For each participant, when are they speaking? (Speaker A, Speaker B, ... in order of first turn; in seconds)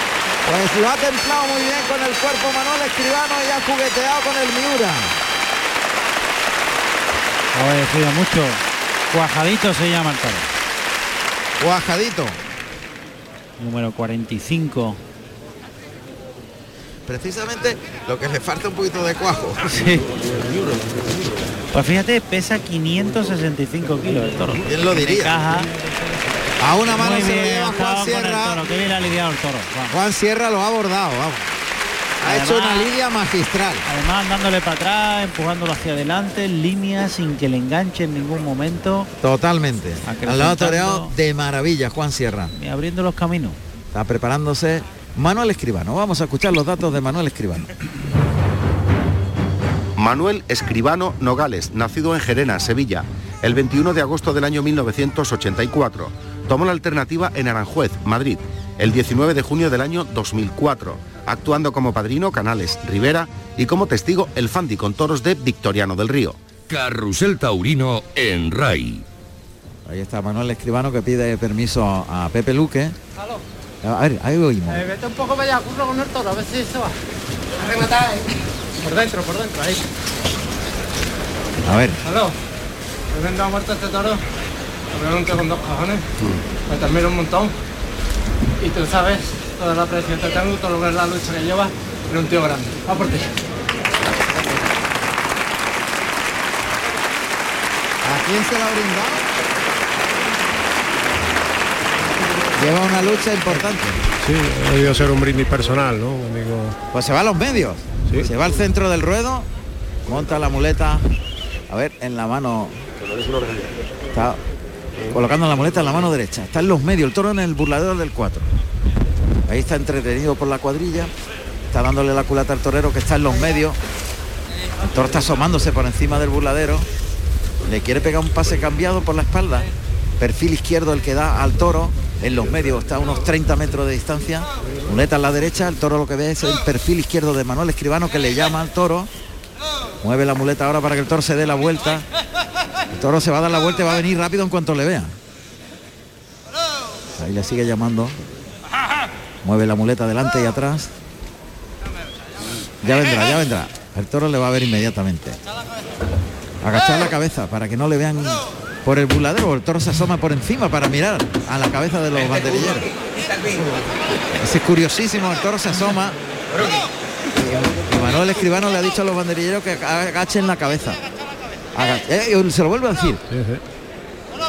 Speaker A: 0.5-5.2, 11.6-12.4, 17.1-19.6, 24.7-25.4, 26.6-28.6, 29.9-31.5, 32.2-33.9, 39.2-42.5, 43.9-47.7, 69.9-73.0, 73.8-74.9, 81.7-82.0, 98.0-99.3, 102.6-104.0, 106.9-109.5, 110.1-111.0, 111.7-112.8, 114.1-114.4, 115.1-118.5, 119.5-121.1, 121.7-123.8, 124.8-126.9, 127.7-129.7, 130.2-139.1, 140.0-142.1, 142.9-145.2, 147.2-148.2, 149.4-150.9, 152.8-155.4, 156.6-162.9, 164.3-166.2, 167.3-171.0, 171.7-173.2
Speaker B: 7.5-10.5, 13.6-15.0, 19.6-20.0, 21.7-25.7, 26.9-29.9, 32.2-32.9, 33.9-39.1, 40.0-41.1, 42.5-43.6
Speaker C: 50.0-66.4
Speaker D: 66.7-69.0
Speaker E: 74.7-76.9, 77.6-78.3, 78.8-79.8, 82.0-82.3, 83.1-84.2, 84.9-86.0, 86.7-87.5, 88.6-93.3
Speaker F: 104.2-106.8, 173.3-173.6